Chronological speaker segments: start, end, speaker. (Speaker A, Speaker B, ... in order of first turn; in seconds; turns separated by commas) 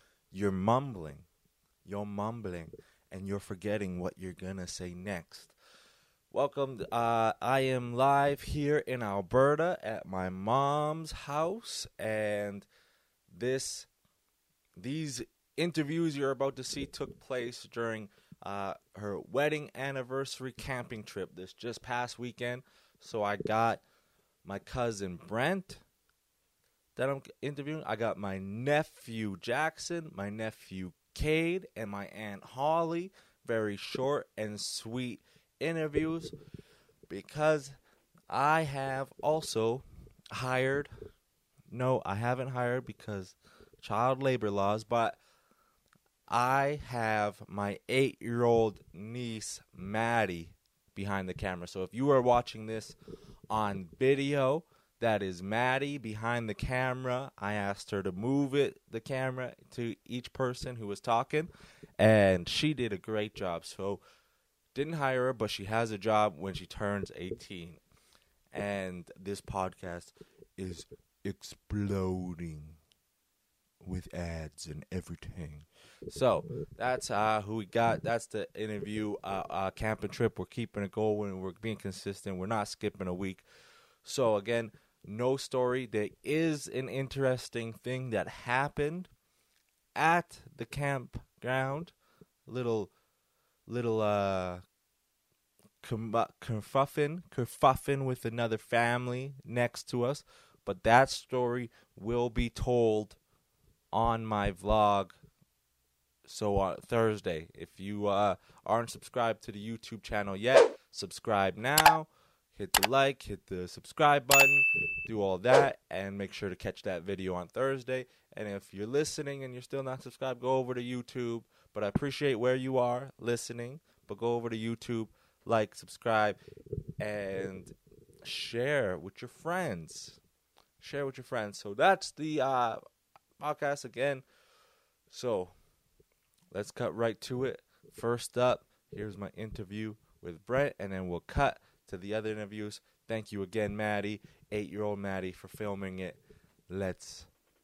Speaker A: 0.3-1.2, Speaker A: 1.8-5.5, Speaker A: 6.3-12.7, Speaker A: 13.3-13.9, Speaker A: 14.8-23.8, Speaker A: 24.4-25.8, Speaker A: 26.9-36.4, Speaker A: 37.1-37.8, Speaker A: 38.3-40.9, Speaker A: 41.7-45.2, Speaker A: 46.3-53.0, Speaker A: 53.5-64.0, Speaker A: 64.7-67.8, Speaker A: 68.5-72.8, Speaker A: 73.8-83.4, Speaker A: 84.0-89.1, Speaker A: 90.0-91.9, Speaker A: 92.5-92.9, Speaker A: 93.7-94.6, Speaker A: 95.8-103.2, Speaker A: 103.9-105.2, Speaker A: 106.2-126.4, Speaker A: 127.0-130.2, Speaker A: 130.8-132.8, Speaker A: 133.4-134.2, Speaker A: 135.1-135.5, Speaker A: 136.5-147.3